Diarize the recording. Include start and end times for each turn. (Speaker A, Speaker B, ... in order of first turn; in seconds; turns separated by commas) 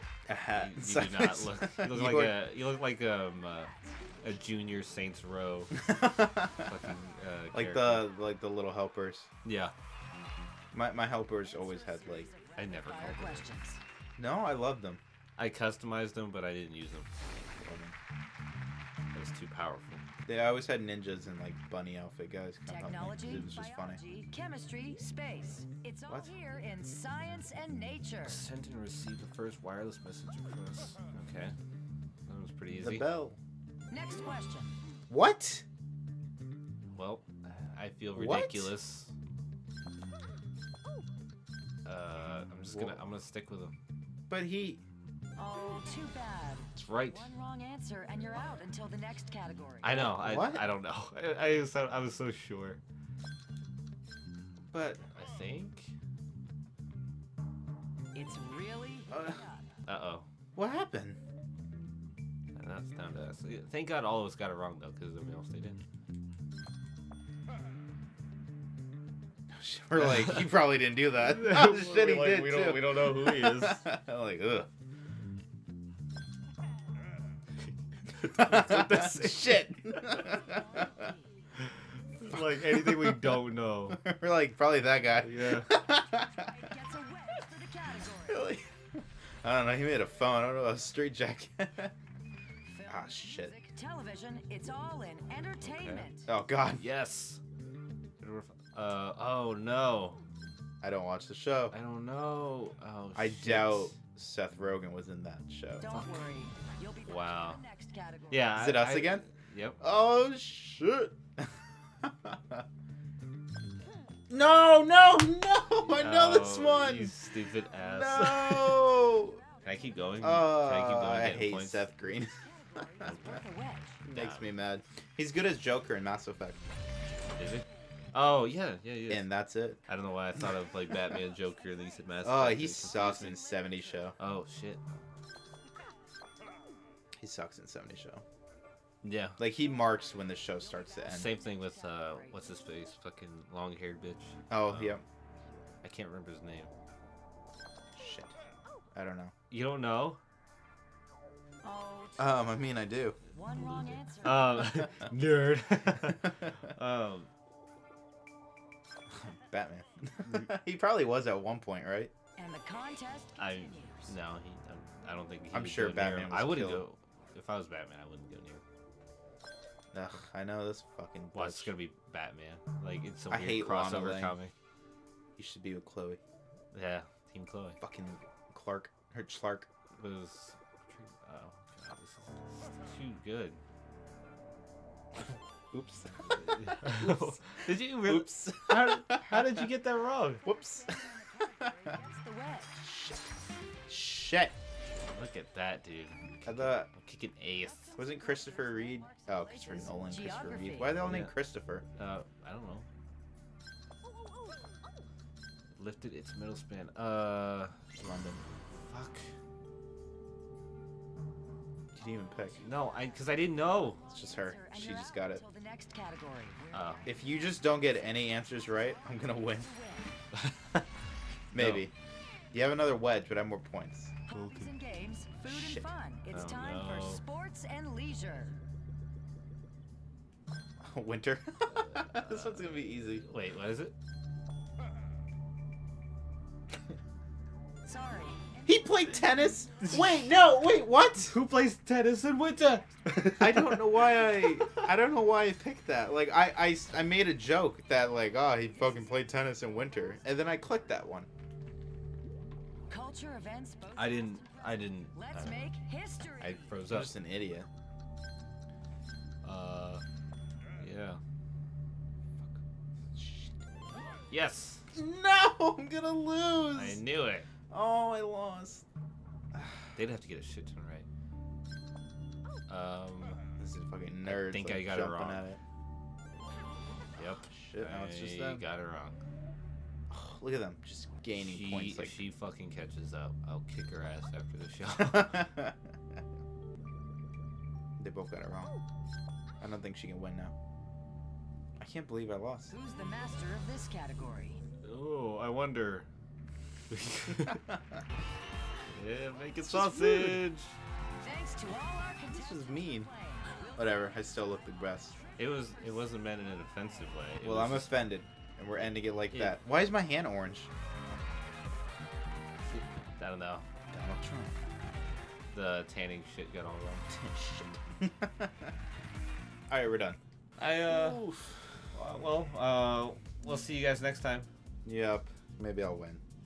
Speaker A: 0.3-2.4, Speaker B: 0.5-5.9, Speaker A: 5.8-6.7, Speaker B: 6.6-8.1, Speaker A: 7.5-9.3, Speaker B: 9.4-9.7, Speaker A: 10.7-12.3, Speaker C: 11.4-13.8, Speaker B: 12.6-13.4, Speaker A: 14.2-15.0, Speaker B: 15.4-17.1, Speaker A: 17.5-17.9, Speaker B: 19.1-20.0, Speaker A: 20.3-24.0, Speaker C: 22.7-28.4, Speaker B: 28.2-31.6, Speaker B: 32.3-33.1, Speaker A: 32.8-33.4, Speaker C: 33.9-34.8, Speaker A: 35.1-35.6, Speaker B: 36.9-39.1, Speaker A: 38.1-38.7, Speaker B: 41.9-43.7, Speaker A: 42.7-43.0, Speaker A: 44.3-44.8, Speaker C: 45.4-50.1, Speaker B: 46.8-47.3, Speaker B: 49.8-52.8, Speaker A: 50.0-50.7, Speaker A: 54.7-55.0, Speaker B: 55.1-56.0, Speaker C: 58.1-59.7, Speaker A: 59.1-59.4, Speaker B: 59.9-60.3, Speaker A: 60.6-61.2, Speaker B: 62.5-65.8, Speaker A: 69.5-74.7, Speaker B: 71.2-73.9, Speaker B: 78.1-80.4, Speaker A: 78.3-80.9, Speaker C: 80.4-81.3, Speaker B: 81.6-84.0, Speaker A: 82.6-83.3, Speaker A: 83.9-86.5, Speaker B: 85.2-85.7, Speaker C: 86.4-88.5, Speaker A: 88.2-91.9, Speaker C: 92.7-96.3, Speaker A: 92.9-93.5, Speaker B: 95.6-96.1, Speaker A: 96.3-96.8, Speaker B: 96.8-97.4, Speaker B: 98.2-100.2, Speaker A: 100.8-101.7, Speaker B: 101.7-103.9, Speaker A: 103.2-105.9, Speaker C: 105.8-108.5, Speaker B: 105.9-106.3, Speaker B: 107.0-107.6, Speaker B: 108.3-109.8, Speaker A: 108.6-109.2, Speaker A: 109.8-111.5, Speaker A: 112.0-112.6, Speaker A: 114.3-117.1, Speaker B: 116.0-119.0, Speaker A: 117.8-119.4, Speaker C: 119.1-119.6, Speaker B: 119.6-121.9, Speaker A: 120.2-122.4, Speaker C: 122.4-124.0, Speaker A: 124.0-126.6, Speaker B: 124.1-124.5, Speaker B: 127.4-129.3, Speaker A: 129.1-129.8, Speaker B: 129.9-133.4, Speaker A: 132.2-134.2, Speaker B: 134.2-134.8, Speaker A: 137.2-138.2, Speaker B: 139.0-139.4, Speaker A: 139.4-141.3, Speaker B: 141.1-145.0, Speaker C: 141.5-142.4, Speaker A: 144.5-145.0, Speaker B: 145.8-146.7, Speaker A: 147.9-148.4, Speaker A: 148.9-149.3, Speaker B: 149.5-150.2, Speaker C: 151.6-152.4, Speaker A: 152.2-153.2, Speaker C: 153.3-154.8, Speaker B: 153.6-157.3, Speaker A: 159.1-162.1, Speaker C: 162.4-164.2, Speaker B: 163.4-168.6, Speaker A: 165.5-166.9, Speaker A: 169.9-171.7, Speaker B: 171.3-174.5, Speaker A: 173.3-174.4, Speaker A: 175.4-176.2, Speaker B: 176.7-177.8, Speaker A: 177.8-179.7, Speaker B: 180.0-183.6, Speaker A: 185.3-189.7, Speaker B: 186.3-190.4, Speaker C: 190.4-192.8, Speaker A: 190.4-191.1, Speaker A: 192.8-193.3, Speaker A: 193.9-194.6, Speaker B: 195.1-197.9, Speaker A: 196.5-196.9, Speaker C: 197.9-201.0, Speaker A: 198.0-201.8, Speaker B: 201.0-201.4, Speaker B: 202.0-202.9, Speaker B: 205.8-207.8, Speaker A: 208.0-208.4, Speaker B: 208.7-209.3, Speaker A: 211.9-212.6, Speaker B: 212.6-214.0, Speaker A: 214.1-215.4, Speaker C: 214.1-220.2, Speaker B: 216.7-217.1, Speaker A: 217.1-219.7, Speaker B: 220.3-220.8, Speaker A: 221.5-221.9, Speaker B: 221.5-221.9, Speaker A: 222.5-224.2, Speaker C: 224.3-228.6, Speaker B: 224.3-224.7, Speaker A: 225.5-225.9, Speaker B: 226.3-227.2, Speaker A: 230.8-233.3, Speaker B: 231.8-233.9, Speaker C: 237.8-239.4, Speaker A: 238.7-241.3, Speaker B: 239.8-240.1, Speaker B: 241.2-244.9, Speaker A: 243.4-251.3, Speaker C: 252.9-256.7, Speaker B: 253.9-255.7, Speaker B: 256.3-257.1, Speaker A: 256.9-257.7, Speaker B: 259.4-260.0, Speaker B: 260.8-261.2, Speaker A: 263.1-263.6, Speaker B: 264.3-264.8, Speaker A: 264.9-267.0, Speaker B: 266.8-267.5, Speaker A: 267.7-268.9, Speaker B: 269.9-271.1, Speaker B: 272.7-273.4, Speaker A: 273.6-275.6, Speaker B: 274.2-275.4, Speaker B: 277.2-279.2, Speaker A: 277.2-278.6, Speaker A: 280.1-282.2, Speaker B: 281.4-285.5, Speaker A: 285.0-285.8, Speaker A: 288.0-288.8, Speaker A: 289.6-290.5, Speaker A: 291.8-292.7, Speaker C: 292.7-294.6, Speaker B: 294.8-296.1, Speaker B: 296.9-297.6, Speaker A: 297.4-298.0, Speaker B: 298.9-300.8, Speaker A: 299.6-300.4, Speaker C: 301.2-304.0, Speaker A: 302.3-303.1, Speaker A: 303.8-305.2, Speaker B: 305.4-308.0, Speaker A: 307.4-310.7, Speaker B: 309.3-309.6, Speaker B: 312.7-313.7, Speaker A: 313.9-314.6, Speaker B: 315.5-317.1, Speaker A: 317.1-318.7, Speaker A: 319.7-320.2, Speaker B: 320.6-321.3, Speaker A: 320.9-321.6, Speaker B: 321.9-324.5, Speaker A: 324.9-326.2